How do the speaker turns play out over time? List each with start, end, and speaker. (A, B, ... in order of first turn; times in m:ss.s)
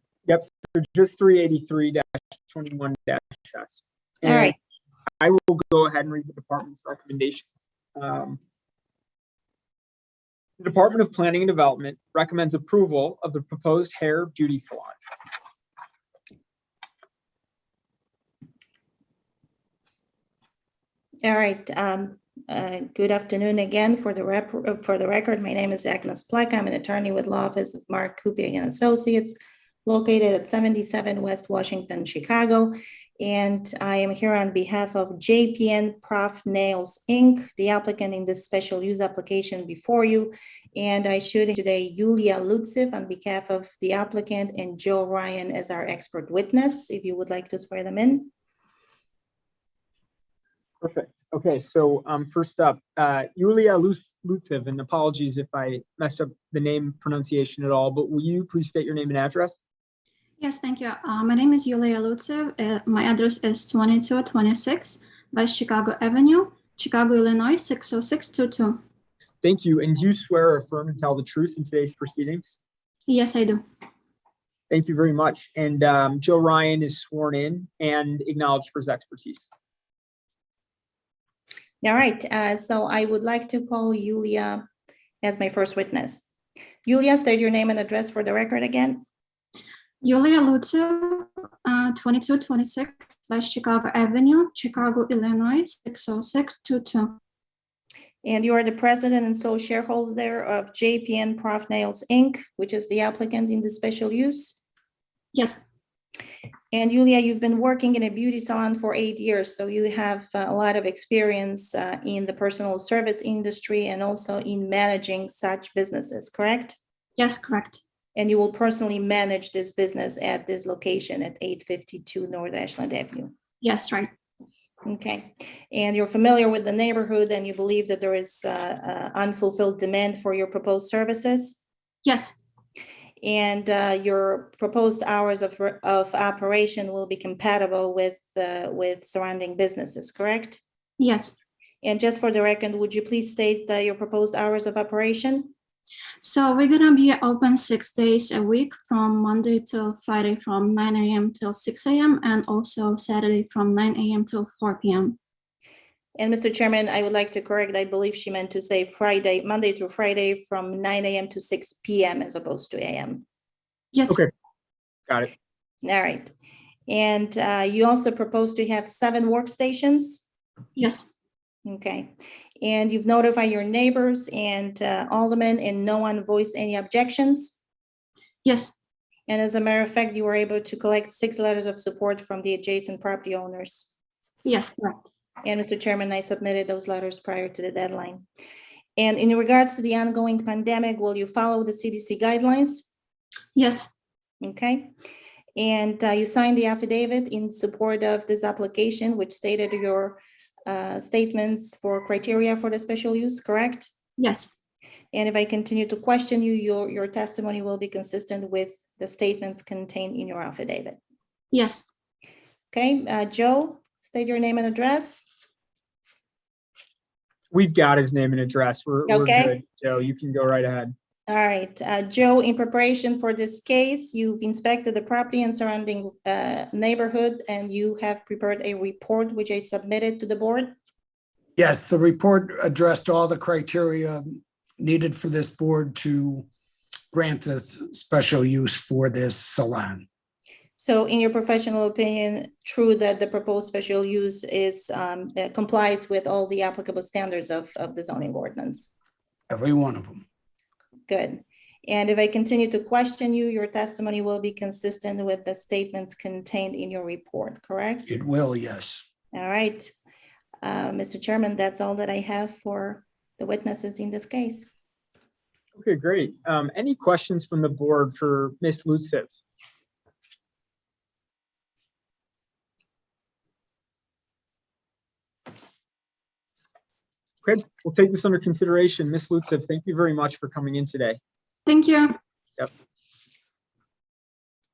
0:00.2-0:04.5 A
0:04.2-0:04.6 B
0:05.2-0:08.4 A
0:10.6-0:15.0 A
0:21.2-0:29.3 B
0:29.8-0:48.3 B
0:50.8-0:59.6 A
1:00.4-1:08.8 C
1:09.4-1:12.6 A
1:13.1-1:13.6 C
1:14.7-1:19.5 A
1:21.8-1:24.7 B
1:25.2-1:26.3 B
1:26.8-1:29.0 B
1:30.0-1:37.2 C
1:38.2-1:44.6 B
1:45.3-1:45.6 C
1:46.7-1:56.8 B
1:57.2-1:57.8 C
1:58.2-2:03.3 B
2:03.6-2:04.1 C
2:04.8-2:11.6 B
2:12.0-2:12.4 C
2:13.2-2:20.6 B
2:21.0-2:21.4 C
2:21.8-2:25.5 B
2:26.2-2:35.2 C
2:36.2-2:43.2 B
2:43.9-2:44.2 C
2:45.8-2:46.3 B
2:46.9-2:50.2 B
2:50.8-2:51.1 C
2:51.6-2:57.6 B
2:58.4-2:58.8 C
2:59.3-3:03.9 B
3:04.4-3:05.1 C
3:05.4-3:08.2 B
3:09.0-3:12.9 B
3:13.5-3:13.9 C
3:14.4-3:14.9 B
3:15.6-3:23.9 B
3:24.2-3:24.5 C
3:25.1-3:31.0 B
3:31.5-3:31.9 C
3:32.7-3:35.2 B
3:37.5-3:40.9 A
3:39.1-3:39.6 B
3:41.3-3:50.7 B
3:51.6-3:56.4 D
3:57.1-4:00.0 D
4:00.8-4:08.9 B
4:09.5-4:10.2 D
4:11.1-4:18.1 B
4:18.1-4:19.0 D
4:19.3-4:19.9 B
4:20.6-4:24.7 B
4:25.8-4:29.3 A
4:37.4-4:41.2 A
4:41.6-4:42.2 C